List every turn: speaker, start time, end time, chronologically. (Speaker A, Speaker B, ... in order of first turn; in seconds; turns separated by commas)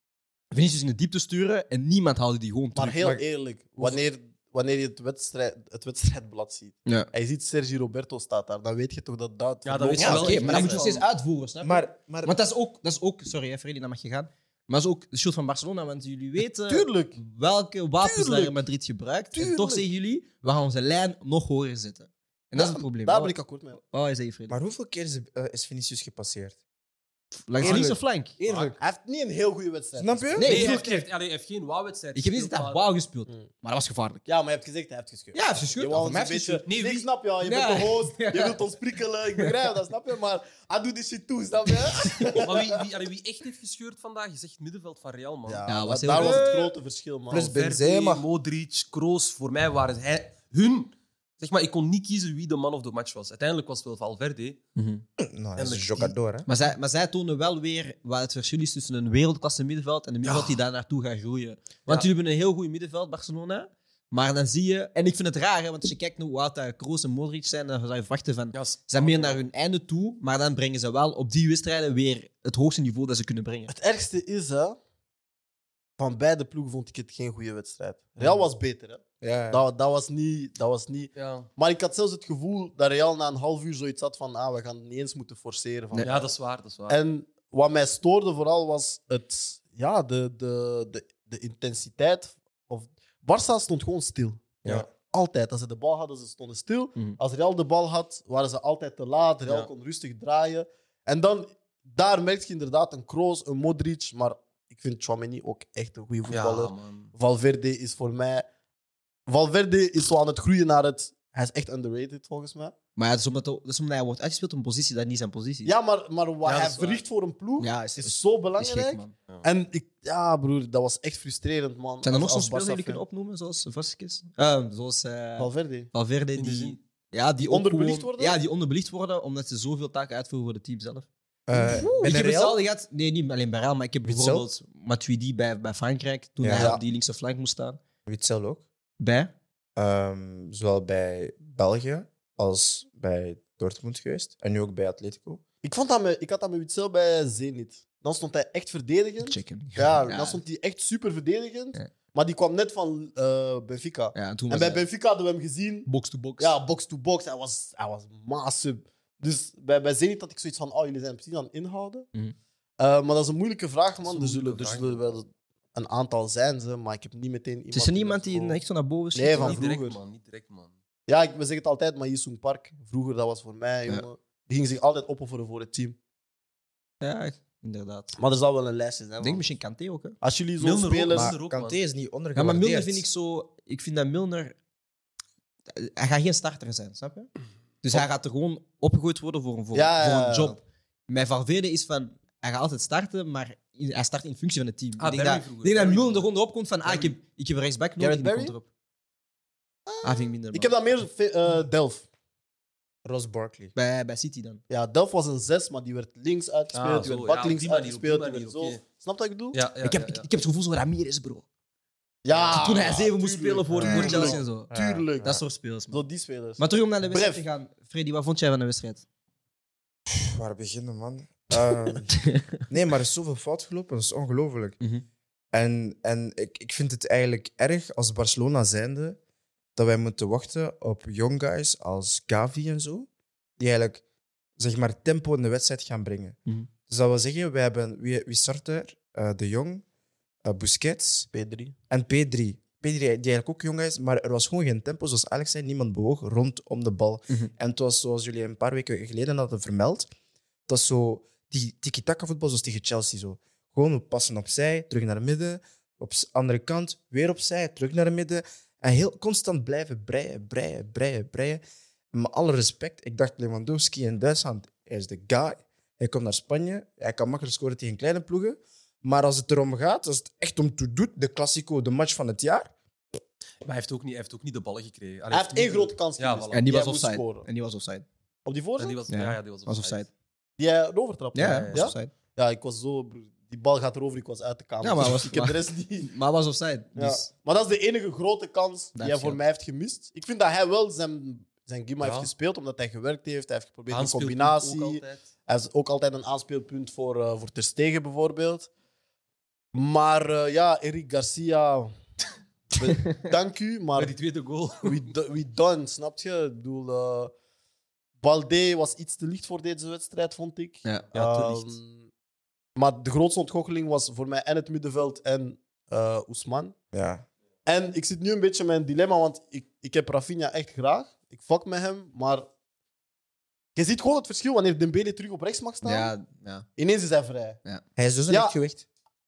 Speaker A: 0.5-3.1, Speaker B: 2.7-10.8, Speaker C: 9.6-11.0, Speaker A: 10.0-24.6, Speaker D: 11.6-12.3, Speaker B: 16.7-17.2, Speaker B: 18.0-18.6, Speaker B: 19.3-19.9, Speaker B: 22.6-23.8, Speaker D: 24.5-26.6, Speaker A: 27.5-28.3, Speaker D: 27.6-28.8, Speaker C: 28.4-28.7, Speaker B: 28.8-30.7, Speaker D: 30.0-30.8, Speaker A: 30.4-31.1, Speaker C: 30.4-32.8, Speaker A: 32.1-34.2, Speaker B: 34.2-42.8, Speaker A: 35.3-36.6, Speaker C: 36.7-37.1, Speaker A: 37.4-38.6, Speaker A: 42.0-42.4, Speaker C: 42.3-46.7, Speaker B: 45.5-47.5, Speaker A: 45.7-46.5, Speaker D: 47.3-48.2, Speaker C: 47.4-54.6, Speaker A: 54.8-55.0, Speaker D: 55.2-56.5, Speaker C: 55.5-56.1, Speaker A: 56.5-73.7, Speaker C: 60.2-60.6, Speaker C: 68.5-69.4, Speaker B: 73.7-74.8, Speaker B: 76.0-86.3, Speaker D: 79.2-79.6, Speaker C: 81.2-81.5, Speaker C: 86.0-87.0, Speaker B: 86.9-108.5, Speaker C: 106.3-107.1, Speaker B: 109.3-112.7, Speaker A: 113.0-115.7, Speaker B: 115.6-123.0, Speaker C: 116.4-117.0, Speaker A: 117.6-119.1, Speaker A: 122.0-131.1, Speaker B: 125.4-125.9, Speaker C: 126.4-126.8, Speaker B: 127.4-128.4, Speaker D: 131.5-132.6, Speaker B: 131.5-132.0, Speaker A: 131.6-137.8, Speaker D: 134.0-134.5, Speaker D: 136.4-136.8, Speaker B: 136.5-136.8, Speaker D: 138.1-138.6, Speaker A: 139.0-139.3, Speaker D: 139.8-145.4, Speaker B: 145.6-162.1, Speaker A: 149.2-150.4, Speaker A: 154.1-154.8, Speaker A: 155.8-156.6, Speaker B: 162.8-168.6, Speaker C: 164.0-165.0, Speaker A: 167.7-169.6, Speaker B: 169.1-170.0, Speaker C: 169.3-170.7, Speaker B: 171.1-176.0, Speaker A: 177.0-178.1, Speaker B: 178.2-179.4, Speaker A: 179.2-180.2, Speaker B: 180.2-181.3, Speaker C: 180.6-181.8, Speaker D: 181.1-183.0, Speaker A: 182.3-184.5, Speaker A: 185.7-187.3, Speaker A: 187.8-198.7, Speaker B: 189.7-190.6, Speaker C: 195.0-196.3, Speaker C: 196.8-197.1, Speaker B: 198.0-198.6, Speaker B: 199.8-202.1, Speaker A: 200.0-200.7, Speaker D: 203.0-203.7, Speaker A: 203.7-204.6, Speaker B: 204.7-209.6, Speaker C: 206.7-208.8, Speaker C: 209.5-210.2, Speaker A: 209.8-211.4, Speaker B: 212.2-217.4, Speaker C: 212.3-212.9, Speaker A: 212.5-216.0, Speaker D: 213.8-215.1, Speaker C: 213.9-214.4, Speaker A: 216.6-219.0, Speaker D: 220.1-222.1, Speaker A: 222.1-222.6, Speaker D: 222.7-224.8, Speaker D: 225.5-229.2, Speaker D: 229.8-233.1, Speaker D: 233.6-234.0, Speaker D: 234.6-236.4, Speaker D: 236.9-239.8, Speaker D: 240.4-241.3, Speaker B: 241.3-241.7, Speaker D: 241.9-250.1, Speaker D: 250.7-261.6, Speaker D: 262.1-272.7, Speaker C: 273.6-276.6, Speaker B: 275.3-277.4, Speaker A: 276.5-278.0, Speaker B: 278.4-279.0, Speaker C: 278.8-280.0, Speaker A: 279.1-280.1, Speaker B: 280.6-286.1, Speaker A: 281.3-282.1, Speaker C: 281.4-281.9, Speaker A: 284.8-287.3, Speaker B: 286.9-298.7, Speaker A: 288.9-289.4, Speaker C: 292.0-292.3, Speaker C: 293.9-295.2, Speaker B: 299.7-301.9, Speaker B: 302.8-304.1, Speaker C: 303.9-305.1, Speaker B: 304.8-307.3, Speaker B: 308.2-312.1, Speaker A: 310.8-311.1, Speaker C: 311.1-311.6, Speaker B: 312.8-316.7, Speaker D: 316.9-317.2, Speaker B: 317.6-322.4, Speaker B: 323.7-326.1, Speaker A: 325.8-326.7, Speaker B: 326.8-327.6, Speaker D: 327.9-328.8, Speaker B: 328.3-328.5